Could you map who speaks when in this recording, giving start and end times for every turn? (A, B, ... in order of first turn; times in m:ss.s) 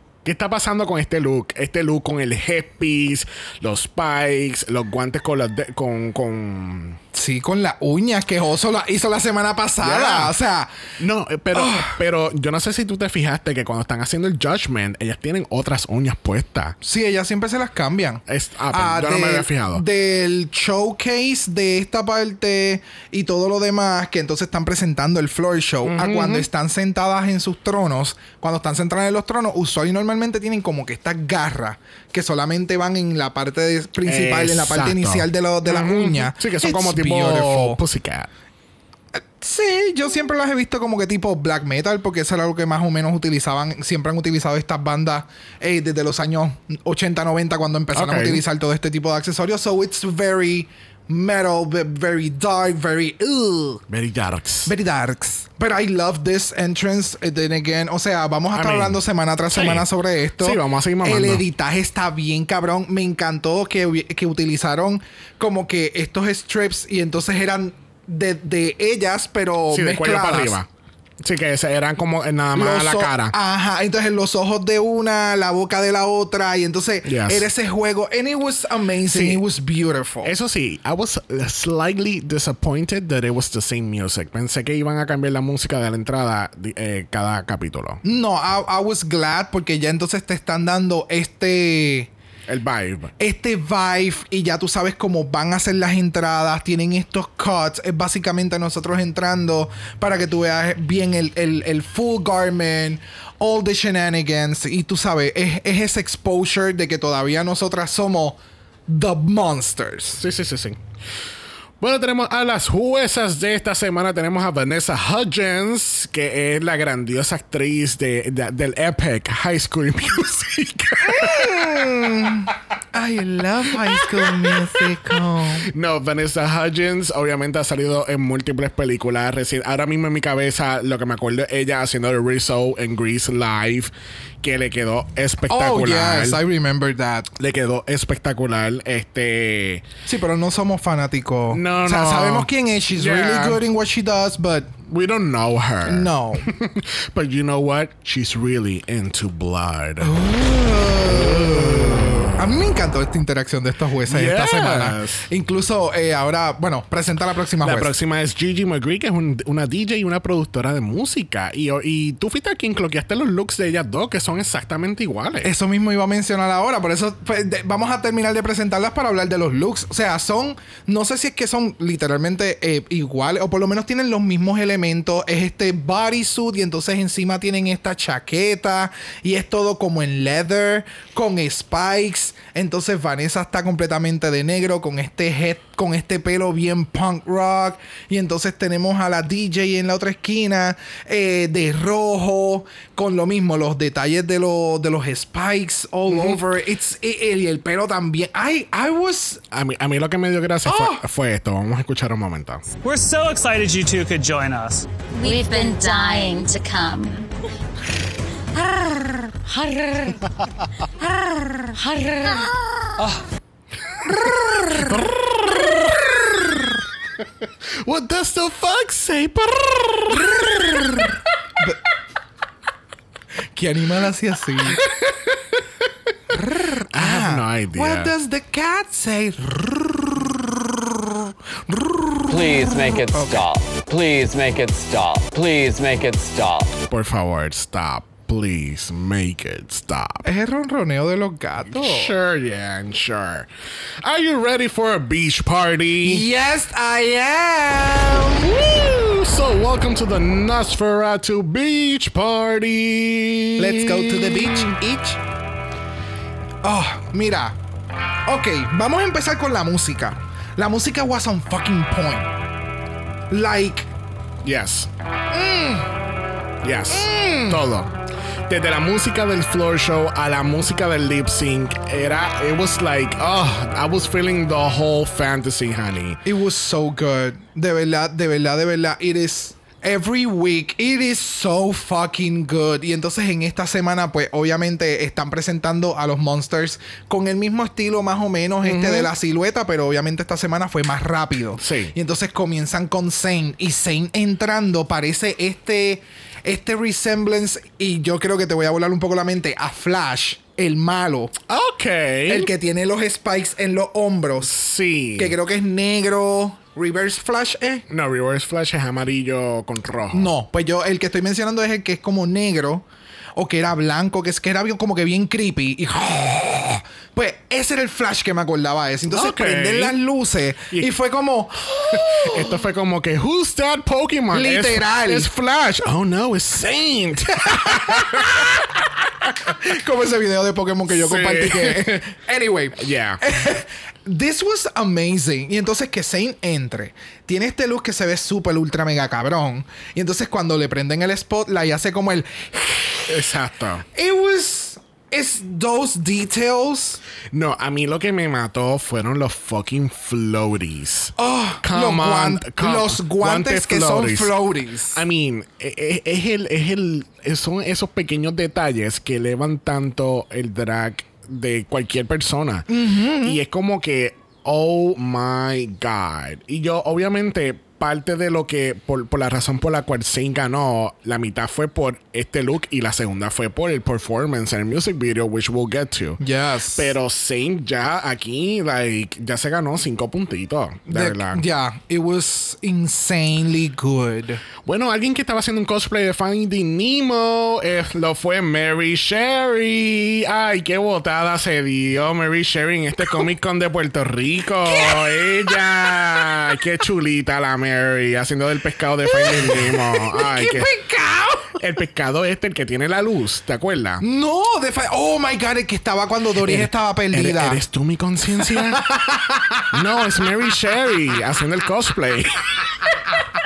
0:00.2-0:07.0 A
0:07.1-0:10.7 B
0:09.8-0:10.3 A
0:11.0-0:16.8 A
0:11.5-0:12.0 B
0:16.8-0:37.8 B
0:18.3-0:19.8 A
0:25.8-0:26.5 A
0:34.0-0:38.3 A
0:39.2-0:53.8 B
0:47.9-0:48.4 A
0:53.9-0:54.7 A
0:54.7-1:10.6 B
0:58.5-1:01.4 A
1:09.7-1:10.7 A
1:11.2-1:13.3 A
1:12.5-1:20.3 B
1:17.0-1:17.4 A
1:19.1-1:19.4 A
1:20.2-1:28.0 A
1:28.0-1:32.1 B
1:32.5-1:33.1 A
1:33.2-1:50.2 B
1:50.2-1:50.8 A
1:51.8-2:02.3 A
2:01.0-2:05.7 B
2:03.7-2:16.4 A
2:15.5-2:17.3 B
2:17.4-2:19.9 A
2:20.1-2:24.7 B
2:21.5-2:23.6 A
2:24.9-2:30.1 A
2:25.8-2:26.5 B
2:30.0-2:37.9 B
2:31.0-2:32.6 A
2:34.1-2:35.3 A
2:37.6-2:45.5 A
2:45.4-3:19.4 B
3:16.1-3:16.4 A
3:19.5-3:22.6 A
3:20.7-3:21.0 B
3:22.8-3:24.9 C
3:25.1-3:27.3 D
3:29.4-3:30.3 D
3:31.5-3:32.6 D
3:33.9-3:36.4 A
3:34.1-3:35.0 B
3:37.4-3:41.1 A
3:40.2-3:41.8 B
3:43.5-3:44.8 B
3:44.7-3:46.3 A
3:46.3-3:53.4 B
3:46.9-3:48.1 A
3:52.3-3:56.8 E
3:56.9-4:00.2 A
4:00.2-4:02.1 B
4:01.7-4:03.5 A
4:04.0-4:06.2 A
4:06.0-4:08.5 B
4:08.3-4:14.7 A
4:13.6-4:15.2 B
4:16.6-4:17.6 B
4:18.3-4:22.3 B
4:23.3-4:23.9 B
4:24.4-4:24.9 A
4:25.3-4:25.9 B
4:26.6-4:28.0 A
4:26.9-4:27.6 B
4:28.5-4:36.2 A
4:36.2-5:01.3 B
4:48.7-4:49.1 A
4:51.6-4:51.9 A
5:01.5-5:02.5 A
5:02.3-5:04.5 B
5:04.4-5:05.3 A
5:05.2-5:07.8 B
5:07.9-5:10.3 A
5:10.1-5:12.8 B
5:13.4-5:22.6 B
5:19.1-5:20.0 A
5:21.9-5:28.8 A
5:24.3-5:25.3 B
5:27.3-5:28.6 B
5:29.2-5:43.2 B
5:30.9-5:32.1 A
5:32.8-5:33.2 A
5:43.1-5:43.9 A
5:43.9-5:47.0 B
5:47.3-5:54.3 A
5:51.2-5:55.0 B
5:54.9-6:16.2 A
6:02.7-6:03.4 B
6:16.2-6:16.9 B
6:16.8-6:21.4 A
6:20.9-6:24.4 B
6:24.6-6:40.8 A
6:34.7-6:36.0 B
6:39.1-6:41.6 B
6:41.5-6:44.0 A
6:44.0-6:47.6 B
6:46.4-6:49.0 A
6:48.5-6:50.1 B
6:49.7-6:53.0 A